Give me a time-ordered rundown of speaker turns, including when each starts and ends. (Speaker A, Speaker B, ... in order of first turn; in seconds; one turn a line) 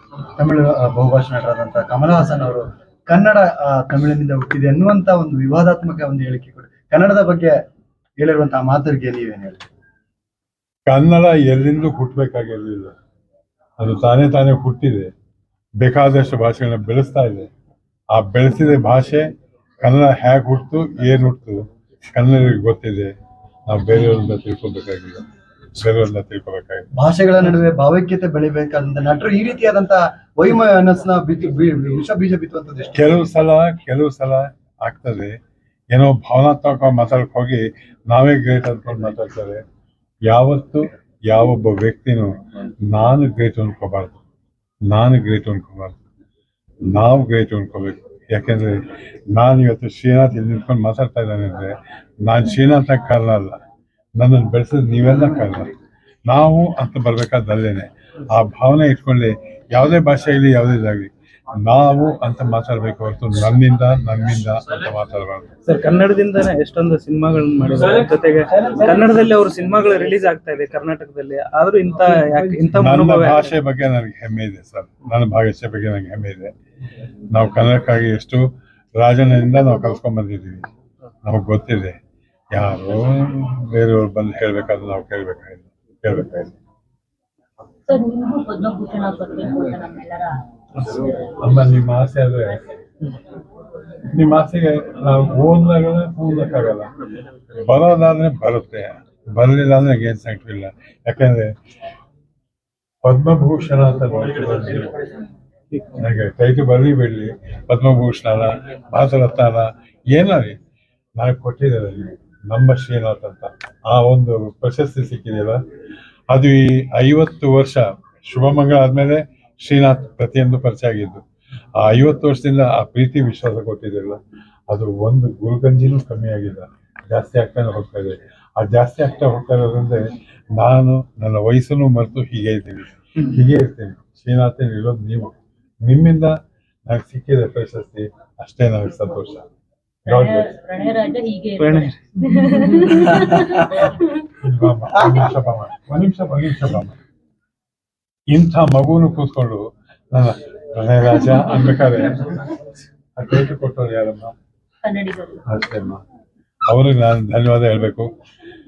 Speaker A: 0.4-7.5
Speaker A: 8.2-9.6
Speaker B: 10.9-12.9
Speaker B: 13.8-15.1
Speaker B: 15.8-17.5
Speaker B: 18.1-21.6
Speaker B: 22.1-23.1
Speaker B: 23.7-25.2
Speaker B: 25.8-26.9
Speaker A: 26.9-33.2
Speaker B: 32.9-35.3
Speaker B: 35.9-39.6
Speaker B: 40.3-44.2
Speaker B: 44.9-46.0
Speaker B: 46.9-48.8
Speaker B: 49.3-53.6
Speaker B: 54.2-55.7
Speaker B: 56.3-61.1
Speaker B: 61.6-65.5
Speaker C: 65.7-73.5
Speaker B: 72.7-76.5
Speaker B: 77.3-78.5
Speaker B: 79.0-80.7
Speaker B: 81.2-82.0
Speaker B: 82.5-86.5
Speaker D: 87.9-90.4
Speaker B: 90.8-92.6
Speaker B: 94.1-96.9
Speaker B: 97.5-101.5
Speaker B: 103.0-105.1
Speaker C: 105.7-106.0
Speaker B: 106.0-110.6
Speaker B: 111.2-115.6
Speaker B: 116.3-121.2
Speaker B: 121.8-130.0
Speaker B: 130.6-136.3
Speaker B: 136.9-139.4
Speaker B: 140.1-140.5
Speaker D: 140.1-144.2
Speaker C: 141.6-142.0
Speaker C: 142.8-143.1
Speaker B: 144.4-146.9
Speaker B: 148.3-152.4
Speaker B: 153.2-154.3
Speaker D: 154.8-155.4
Speaker B: 155.4-156.0
Speaker B: 156.7-158.1